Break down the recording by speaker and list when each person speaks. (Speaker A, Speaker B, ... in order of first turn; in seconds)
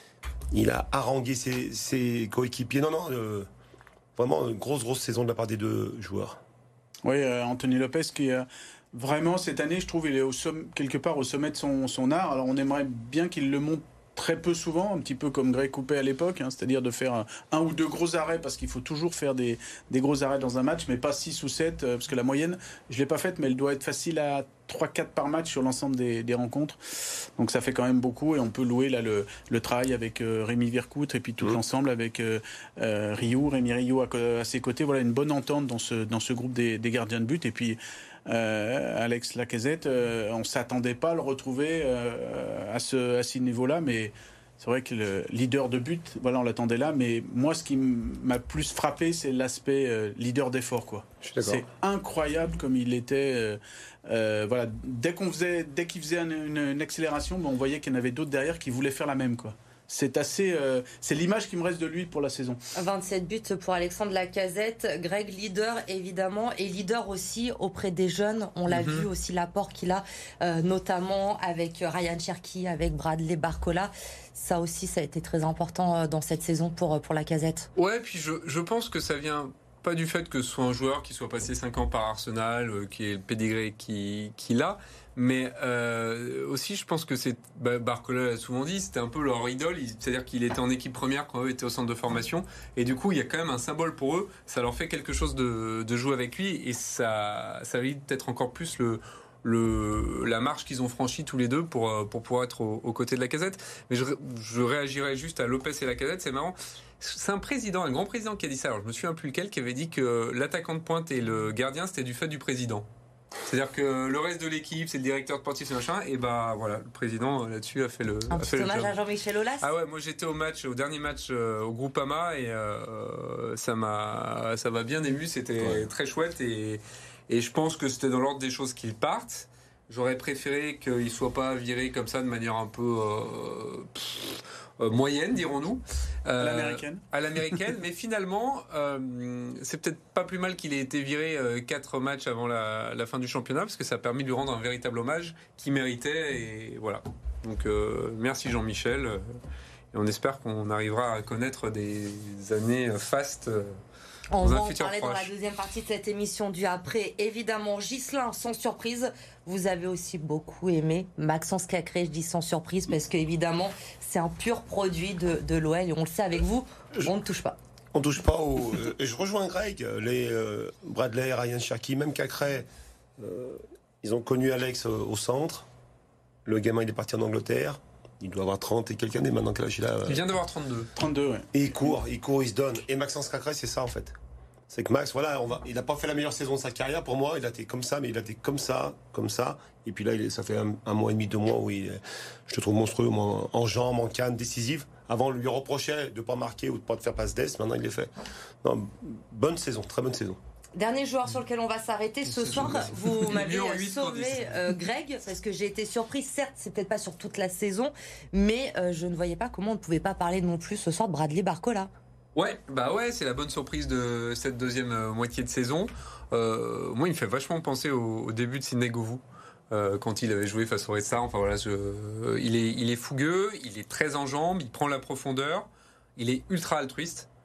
Speaker A: 0.5-3.5, 4.2-6.4, 51.2-51.7, 167.9-175.7, 176.5-180.2, 181.5-184.2, 184.7-198.1, 198.6-200.4
Speaker B: 7.0-26.8, 27.4-62.6, 136.4-137.0, 181.0-181.5
Speaker C: 62.8-77.7, 118.3-119.7, 154.3-167.6, 200.8-211.9
Speaker D: 68.7-69.1, 77.8-112.9, 113.5-119.0, 119.6-149.3, 149.9-153.8, 154.4-155.3, 180.1-180.9, 202.6-204.6, 212.3-227.3